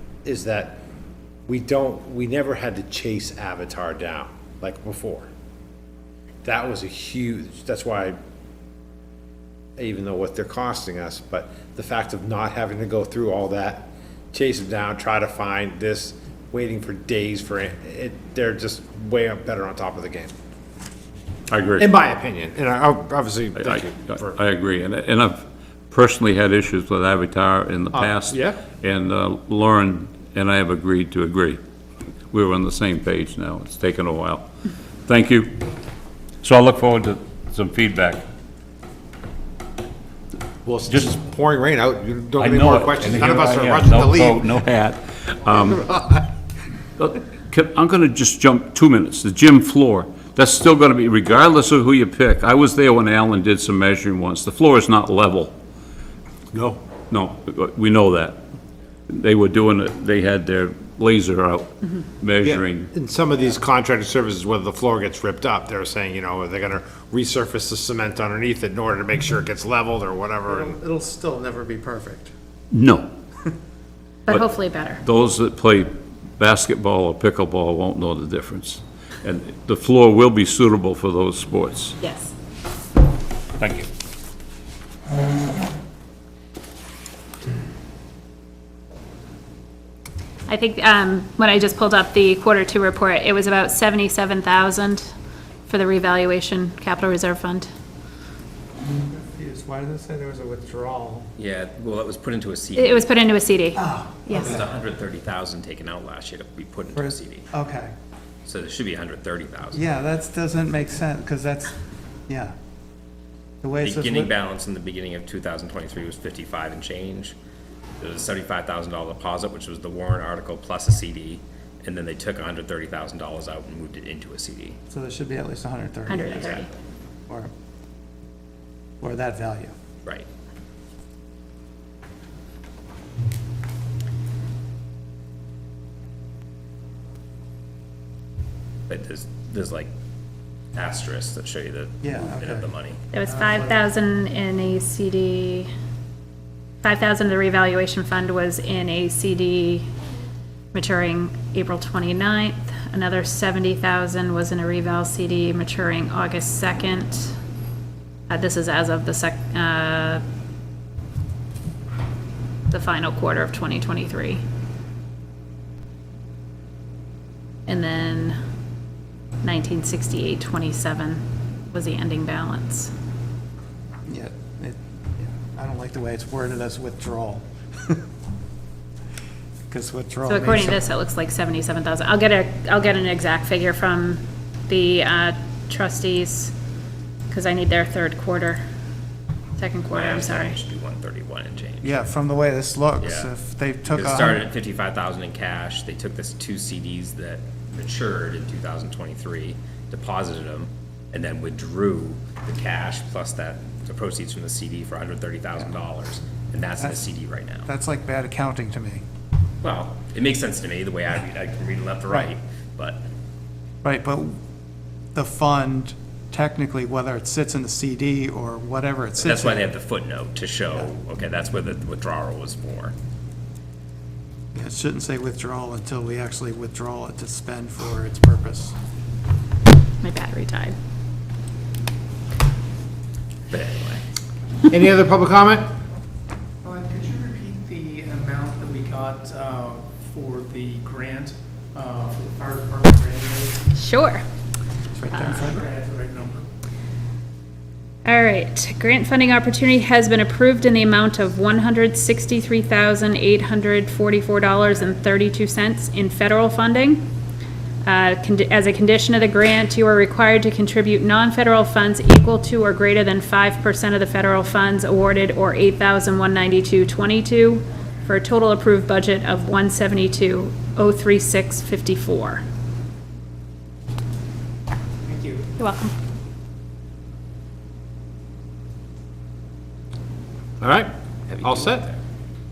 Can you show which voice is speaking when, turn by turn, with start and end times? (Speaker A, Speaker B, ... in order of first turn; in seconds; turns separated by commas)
Speaker A: 0.2-0.8, Speaker A: 1.5-5.3, Speaker A: 6.4-8.2, Speaker A: 9.8-20.3, Speaker B: 21.5-21.9, Speaker A: 21.8-24.4, Speaker B: 23.6-31.6, Speaker A: 27.9-28.6, Speaker B: 32.3-34.5, Speaker B: 35.1-35.6, Speaker B: 36.4-38.2, Speaker A: 40.6-44.6, Speaker B: 42.4-45.8, Speaker A: 45.6-46.3, Speaker B: 47.0-55.5, Speaker A: 56.5-56.8, Speaker B: 57.1-58.4, Speaker B: 59.1-62.9, Speaker A: 62.4-70.8, Speaker C: 70.5-72.3, Speaker B: 72.7-73.1, Speaker D: 74.3-75.0, Speaker B: 75.0-82.0, Speaker D: 82.0-82.3, Speaker B: 83.6-83.9, Speaker D: 90.5-95.1, Speaker D: 95.7-97.7, Speaker C: 98.9-101.3, Speaker E: 101.4-103.1, Speaker D: 102.8-104.6, Speaker C: 103.8-104.7, Speaker E: 104.3-107.5, Speaker C: 106.9-107.9, Speaker E: 108.5-109.8, Speaker C: 109.7-111.8, Speaker C: 112.3-112.5, Speaker C: 113.6-114.3, Speaker E: 113.8-117.3, Speaker E: 118.0-124.8, Speaker C: 124.9-126.6, Speaker D: 126.1-126.7, Speaker E: 126.1-126.7, Speaker C: 129.0-129.7, Speaker E: 138.9-139.9, Speaker E: 140.7-143.0, Speaker C: 142.0-142.7, Speaker D: 143.1-145.7, Speaker C: 143.3-143.7, Speaker D: 146.8-149.8, Speaker D: 150.7-157.3, Speaker D: 158.3-160.2, Speaker D: 162.7-164.4, Speaker D: 167.7-168.4, Speaker D: 169.4-172.9, Speaker C: 174.1-178.0, Speaker C: 179.7-180.8, Speaker D: 180.3-186.5, Speaker D: 187.3-188.6, Speaker D: 189.6-190.6, Speaker E: 189.9-192.0, Speaker C: 191.8-194.5, Speaker E: 193.0-193.3, Speaker E: 193.9-207.7, Speaker C: 207.6-209.0, Speaker E: 209.6-213.0, Speaker C: 213.8-214.4, Speaker C: 215.1-219.7, Speaker E: 219.2-222.9, Speaker C: 224.5-228.8, Speaker D: 230.0-230.8, Speaker E: 233.5-234.0, Speaker A: 234.7-235.7, Speaker F: 236.6-243.7, Speaker D: 243.7-244.2, Speaker C: 244.9-245.7, Speaker F: 245.2-246.4, Speaker D: 248.1-257.0, Speaker D: 257.8-272.4, Speaker F: 275.0-275.5, Speaker D: 275.6-275.9, Speaker A: 280.6-281.9, Speaker E: 281.3-282.0